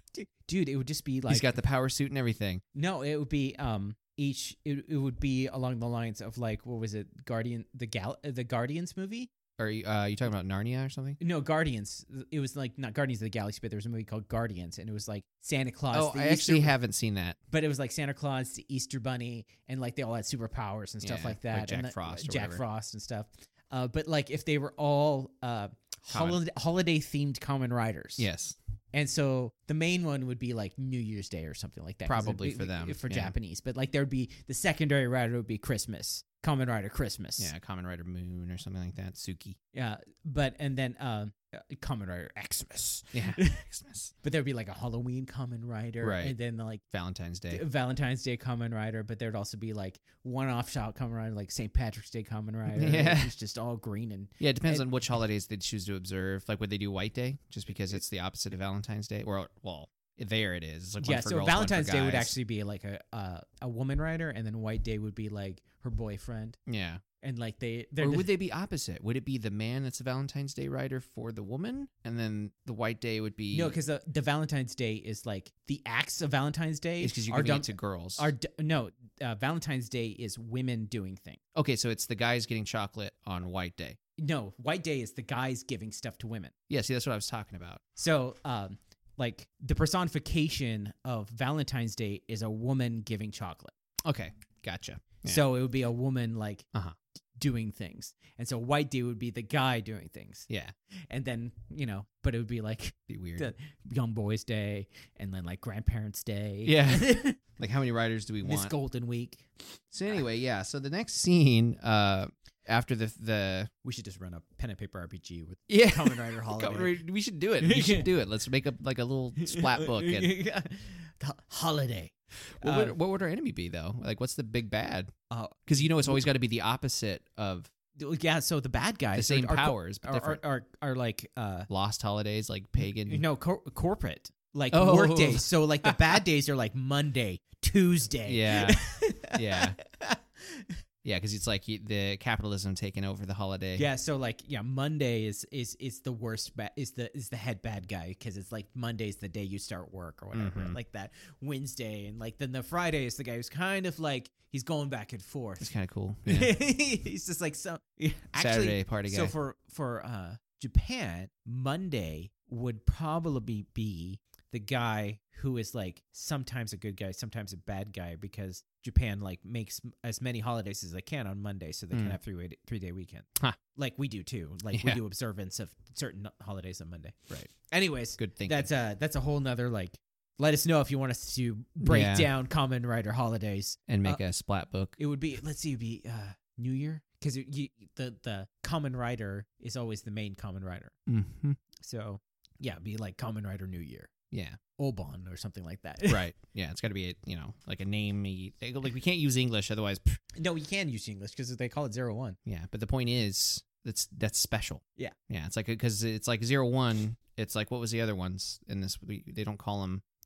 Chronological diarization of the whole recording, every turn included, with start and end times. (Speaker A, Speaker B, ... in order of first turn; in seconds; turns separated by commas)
Speaker A: 0.1-1.5, Speaker B: 1.3-2.6, Speaker A: 2.8-9.3, Speaker B: 9.6-11.2, Speaker A: 11.2-16.7, Speaker B: 15.9-17.4, Speaker A: 17.5-28.3, Speaker B: 21.0-22.6, Speaker B: 26.1-26.4, Speaker B: 28.2-28.6, Speaker A: 28.9-37.5, Speaker B: 32.1-33.4, Speaker B: 37.4-39.6, Speaker A: 39.7-43.7, Speaker B: 43.1-44.1, Speaker A: 44.2-46.8, Speaker B: 46.0-46.4, Speaker B: 46.9-47.6, Speaker A: 47.5-54.9, Speaker B: 52.7-53.3, Speaker B: 54.4-62.3, Speaker A: 61.0-66.6, Speaker B: 66.7-67.0, Speaker A: 67.2-68.3, Speaker B: 68.0-73.8, Speaker A: 73.5-81.4, Speaker B: 77.0-78.3, Speaker B: 81.5-84.0, Speaker A: 84.2-86.5, Speaker B: 86.7-87.8, Speaker A: 88.0-93.7, Speaker B: 94.0-95.4, Speaker A: 95.2-96.7, Speaker A: 97.4-100.5, Speaker B: 100.5-100.7, Speaker A: 101.1-107.4, Speaker B: 103.1-103.5, Speaker B: 106.7-108.7, Speaker A: 108.4-109.8, Speaker B: 109.9-113.7, Speaker A: 113.8-117.0, Speaker B: 115.7-120.3, Speaker A: 117.6-118.1, Speaker A: 119.4-123.0, Speaker B: 122.6-125.1, Speaker A: 125.3-126.3, Speaker B: 125.7-127.7, Speaker A: 128.0-131.7, Speaker B: 129.1-130.4, Speaker B: 131.7-133.2, Speaker A: 132.8-140.7, Speaker B: 134.7-136.2, Speaker B: 138.2-139.8, Speaker B: 141.0-143.9, Speaker A: 143.8-155.7, Speaker B: 150.3-150.8, Speaker B: 155.6-156.5, Speaker A: 156.3-184.2, Speaker B: 158.4-159.3, Speaker B: 171.9-172.2, Speaker B: 174.7-175.0, Speaker B: 178.2-178.7, Speaker B: 181.8-182.3, Speaker B: 183.9-185.0, Speaker A: 185.0-191.0, Speaker B: 191.1-191.6, Speaker A: 191.8-194.1, Speaker B: 194.3-194.6, Speaker A: 194.8-196.2, Speaker B: 196.1-200.2, Speaker A: 200.4-202.4, Speaker B: 202.4-210.0